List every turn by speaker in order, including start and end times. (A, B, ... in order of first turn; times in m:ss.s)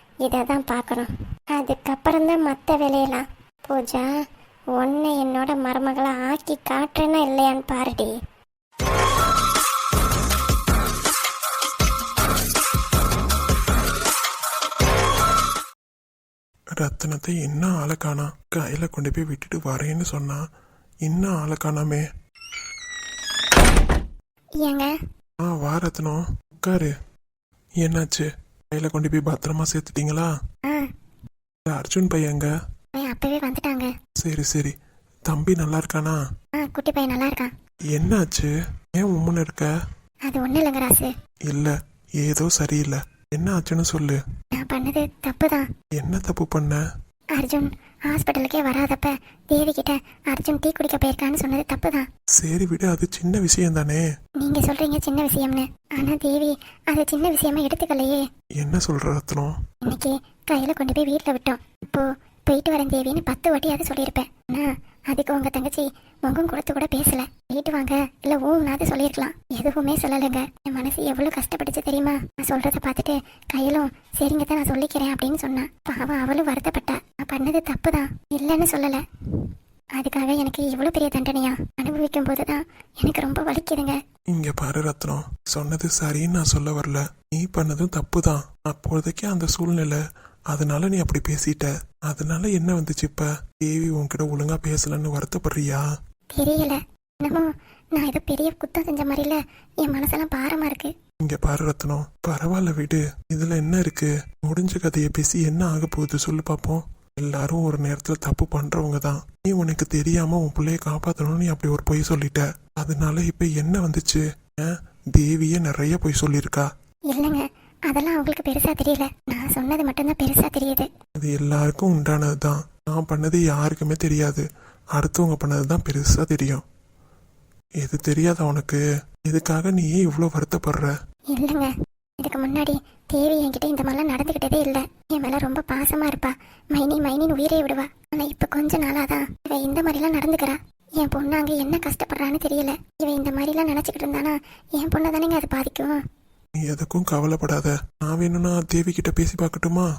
0:00.2-0:04.1 A
0:04.7-0:08.1 A
0:16.8-0:20.4 B
0:21.0-0:22.0 B
0:25.4-0:26.9 B
0:27.8-0:30.3 B
0:31.7-0:32.5 B
0:33.1-0:33.9 A
0:34.2-0:34.7 B
0:35.3-0:36.2 B
0:36.7-0:37.5 A
0:37.9-0:39.7 B
0:40.3-0:41.1 A
0:41.5-0:44.2 B
0:44.6-0:45.6 A
0:46.0-0:46.8 B
0:47.4-0:52.0 A
0:52.4-0:54.0 B
0:54.4-0:58.2 A
0:58.6-0:59.5 B
0:59.9-1:19.0 A
1:20.0-1:24.0 A
1:24.3-1:35.8 B
1:36.4-1:40.9 A
1:41.2-1:56.7 B
1:57.2-2:00.9 A
2:01.2-2:06.6 B
2:07.8-2:10.9 B
2:11.4-2:11.7 A
2:12.2-2:26.0 A
2:26.6-2:29.9 B